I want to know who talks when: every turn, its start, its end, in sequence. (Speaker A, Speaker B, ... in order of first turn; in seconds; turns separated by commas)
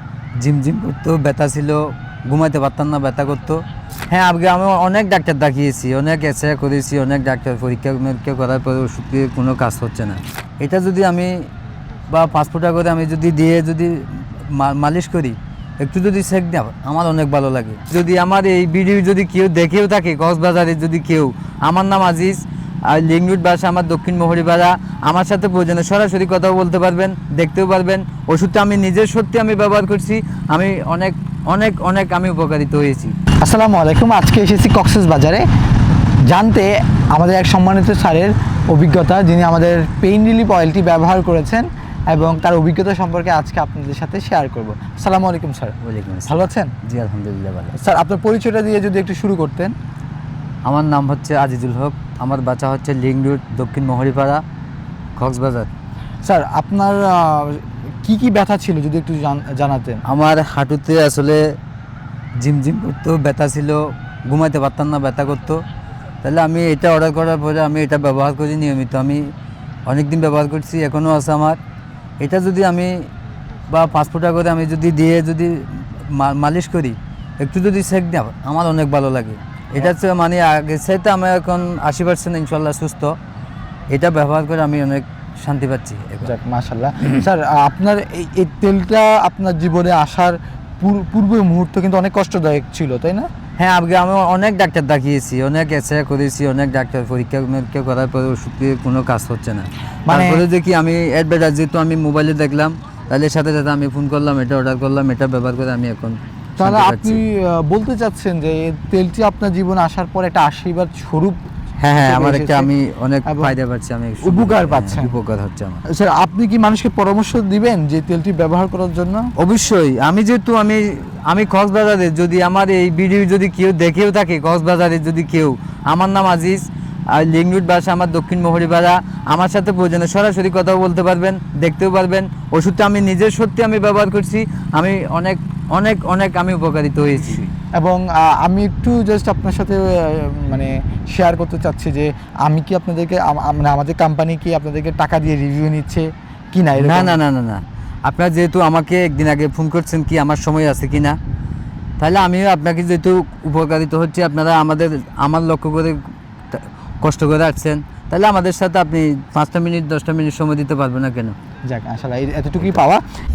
Speaker A: 0.4-11.3, Speaker A: 12.1-33.1, Speaker B: 33.4-35.5, Speaker B: 36.3-45.8, Speaker A: 45.8-47.8, Speaker B: 46.3-46.7, Speaker B: 47.8-49.8, Speaker A: 50.6-54.4, Speaker A: 55.2-55.7, Speaker B: 56.2-60.0, Speaker A: 60.1-61.4, Speaker A: 62.4-65.6, Speaker A: 66.2-69.2, Speaker A: 69.9-71.6, Speaker A: 72.2-72.9, Speaker A: 73.7-83.2, Speaker A: 83.9-86.3, Speaker B: 86.2-93.3, Speaker A: 93.6-107.2, Speaker B: 100.1-100.4, Speaker B: 106.6-111.4, Speaker A: 111.8-115.8, Speaker B: 112.0-112.7, Speaker B: 113.3-113.5, Speaker B: 114.2-115.1, Speaker B: 115.9-119.2, Speaker A: 119.4-137.5, Speaker B: 137.8-147.2, Speaker A: 146.8-151.2, Speaker A: 152.0-156.0, Speaker A: 156.5-161.4, Speaker B: 161.7-163.0